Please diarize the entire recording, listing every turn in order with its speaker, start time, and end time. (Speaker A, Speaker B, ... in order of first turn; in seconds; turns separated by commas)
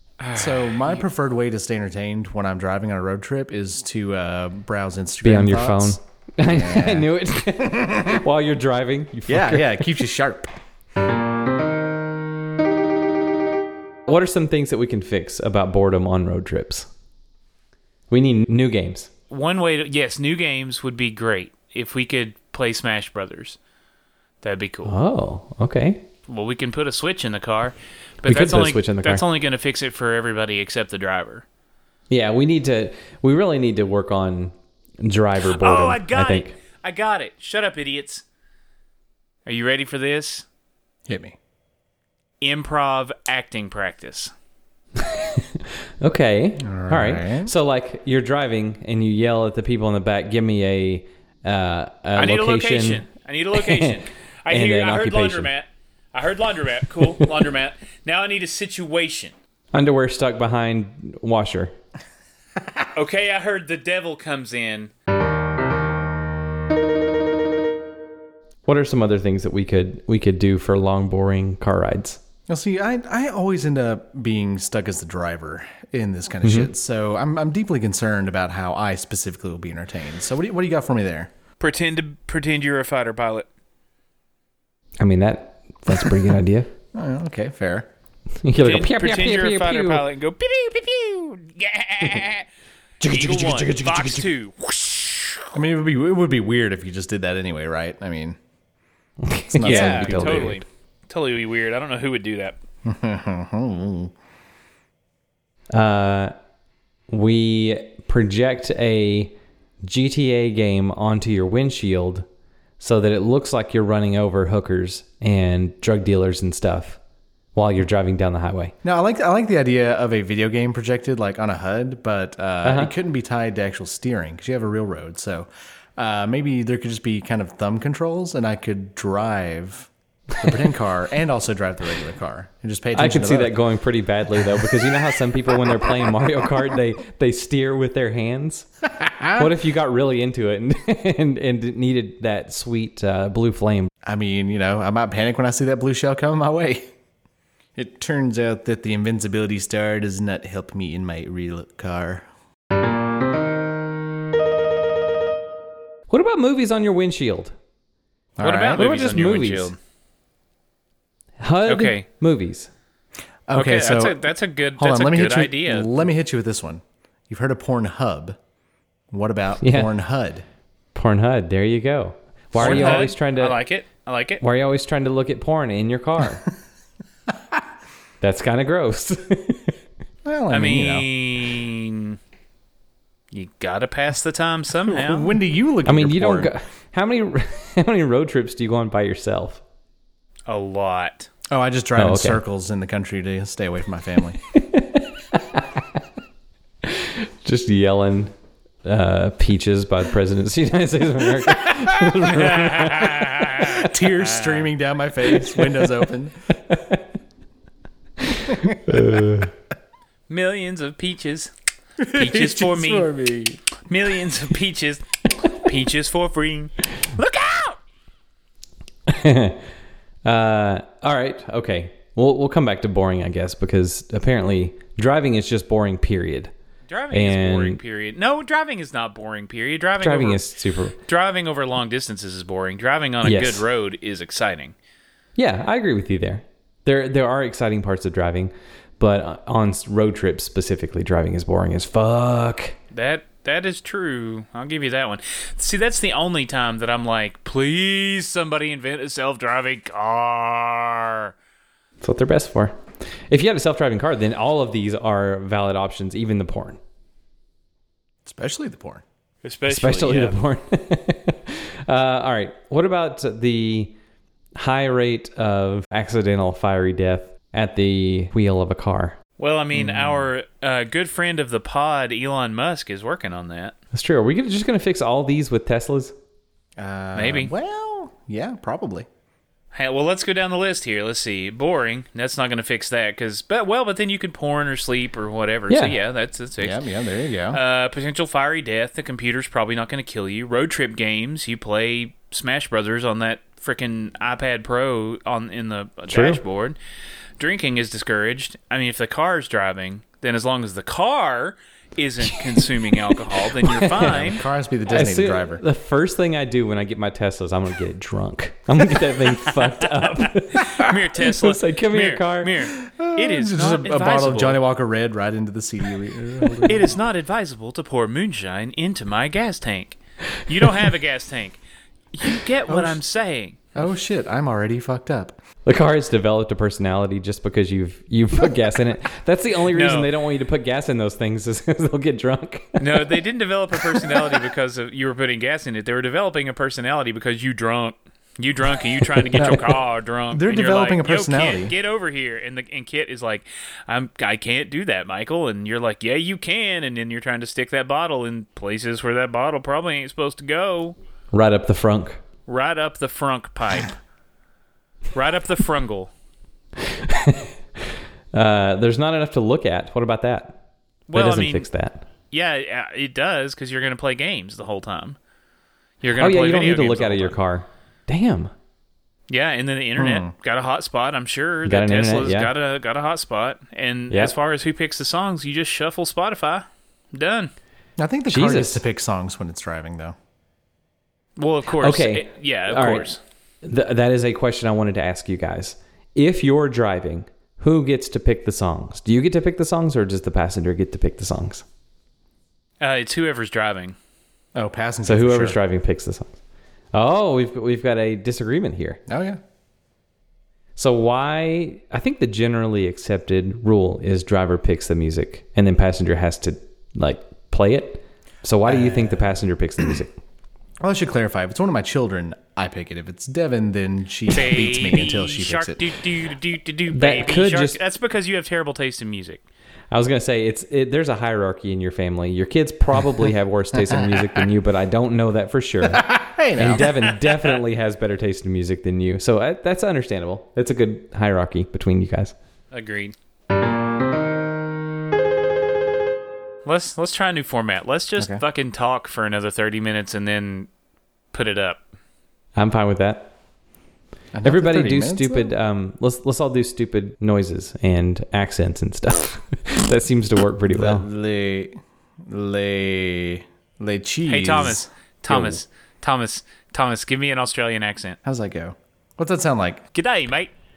Speaker A: 0.2-1.0, Speaker B: 0.3-7.1, Speaker C: 5.2-10.0, Speaker B: 7.7-8.2, Speaker B: 9.3-10.5, Speaker C: 14.1-16.9, Speaker C: 18.1-19.1, Speaker A: 19.3-23.6, Speaker A: 24.4-24.9, Speaker C: 24.8-26.0, Speaker A: 26.3-31.4, Speaker C: 28.2-29.2, Speaker C: 32.1-36.5, Speaker A: 35.5-38.2, Speaker A: 39.5-40.5, Speaker B: 41.1-41.4, Speaker A: 42.4-44.3, Speaker C: 45.0-54.0, Speaker B: 46.6-47.5, Speaker A: 52.1-59.3, Speaker C: 54.5-55.5, Speaker C: 59.7-61.7, Speaker A: 62.9-64.9, Speaker C: 68.6-72.2, Speaker B: 72.5-81.3, Speaker C: 76.4-76.7, Speaker A: 81.6-83.5, Speaker C: 85.0-86.7, Speaker B: 86.9-87.9, Speaker C: 88.4-90.1, Speaker A: 88.5-92.5, Speaker C: 93.0-94.3, Speaker A: 93.0-95.5, Speaker B: 95.5-98.4, Speaker C: 99.2-100.6, Speaker B: 99.5-100.6, Speaker A: 99.6-102.6, Speaker B: 102.8-104.1, Speaker C: 105.7-106.3, Speaker C: 107.1-112.3, Speaker C: 112.8-117.0, Speaker C: 117.5-118.7, Speaker B: 118.8-133.5, Speaker C: 122.6-122.9, Speaker C: 132.9-138.7, Speaker B: 139.0-139.5, Speaker C: 139.3-143.9, Speaker B: 144.0-146.9, Speaker B: 147.8-152.3, Speaker C: 156.1-157.5, Speaker B: 158.4-158.9, Speaker A: 158.4-159.8, Speaker C: 158.8-159.7, Speaker C: 161.4-162.7, Speaker A: 161.7-162.1, Speaker B: 163.5-164.2, Speaker A: 163.5-166.1, Speaker B: 164.8-168.4, Speaker B: 169.1-170.4, Speaker C: 169.6-169.9, Speaker C: 170.9-173.6, Speaker A: 172.5-174.4, Speaker B: 172.6-173.1, Speaker C: 174.4-176.4, Speaker C: 178.2-179.7, Speaker B: 180.2-181.1, Speaker A: 180.5-182.2, Speaker A: 183.3-185.3, Speaker B: 184.8-186.5, Speaker C: 185.8-189.6, Speaker A: 190.5-191.3, Speaker B: 191.5-194.4, Speaker C: 191.9-192.4, Speaker C: 194.5-195.8, Speaker C: 196.8-198.3, Speaker C: 198.8-203.7, Speaker A: 202.3-204.7, Speaker B: 203.5-206.5, Speaker C: 205.3-206.0, Speaker C: 206.7-207.0, Speaker C: 208.3-209.5, Speaker B: 208.4-209.2, Speaker A: 210.3-211.5, Speaker B: 212.0-213.6, Speaker A: 212.1-213.1, Speaker A: 213.9-217.8, Speaker C: 219.1-219.7, Speaker C: 220.2-226.5, Speaker A: 226.9-230.4, Speaker C: 227.1-227.8, Speaker C: 230.0-231.0, Speaker A: 231.0-234.7, Speaker C: 233.2-233.6, Speaker C: 235.3-242.7, Speaker A: 242.9-251.3, Speaker C: 252.0-256.8, Speaker B: 258.2-259.0, Speaker A: 259.4-260.4, Speaker C: 259.7-263.9, Speaker C: 264.6-269.2, Speaker A: 269.4-273.7, Speaker B: 269.7-270.3, Speaker C: 273.9-276.1, Speaker B: 276.8-279.1, Speaker A: 277.1-277.5, Speaker A: 279.7-286.8, Speaker C: 285.7-285.9, Speaker B: 286.6-287.6, Speaker A: 287.5-296.8, Speaker C: 296.1-296.4, Speaker A: 297.4-304.4, Speaker C: 302.9-304.3, Speaker B: 303.9-305.6, Speaker C: 304.9-312.7, Speaker A: 310.1-314.6, Speaker B: 312.7-316.9, Speaker A: 316.6-321.6, Speaker A: 322.1-323.6, Speaker B: 322.7-323.0, Speaker B: 323.7-325.4, Speaker C: 325.6-333.2, Speaker A: 329.7-330.1, Speaker A: 332.8-350.9, Speaker C: 333.7-334.3, Speaker C: 339.2-339.6, Speaker B: 339.3-339.8, Speaker B: 340.3-341.7, Speaker C: 351.3-352.2, Speaker A: 352.5-353.9, Speaker A: 355.1-356.1, Speaker C: 356.8-357.5, Speaker C: 358.3-360.6, Speaker A: 361.1-361.7, Speaker C: 361.1-362.0, Speaker A: 362.3-365.2, Speaker A: 366.0-367.4, Speaker C: 366.2-368.5, Speaker A: 369.3-377.5, Speaker B: 370.0-370.3, Speaker C: 371.6-372.5, Speaker C: 374.1-374.3, Speaker B: 378.0-380.1, Speaker C: 378.3-378.8, Speaker A: 381.4-383.2, Speaker C: 381.8-383.1, Speaker C: 383.6-391.6, Speaker A: 392.8-393.9, Speaker B: 394.5-395.6, Speaker C: 395.0-396.4, Speaker C: 396.9-399.0, Speaker B: 399.1-399.4, Speaker C: 400.8-410.1, Speaker B: 408.7-409.2, Speaker B: 410.8-415.9, Speaker A: 414.3-419.4, Speaker C: 416.9-417.8, Speaker C: 419.9-432.3, Speaker B: 423.7-424.4, Speaker B: 425.8-427.1, Speaker A: 432.7-433.1, Speaker A: 436.6-440.7, Speaker A: 441.3-441.8, Speaker C: 442.6-443.3, Speaker B: 444.3-445.5, Speaker C: 444.4-451.1, Speaker B: 450.7-455.6, Speaker A: 454.3-458.2, Speaker B: 458.2-459.8, Speaker A: 459.9-460.5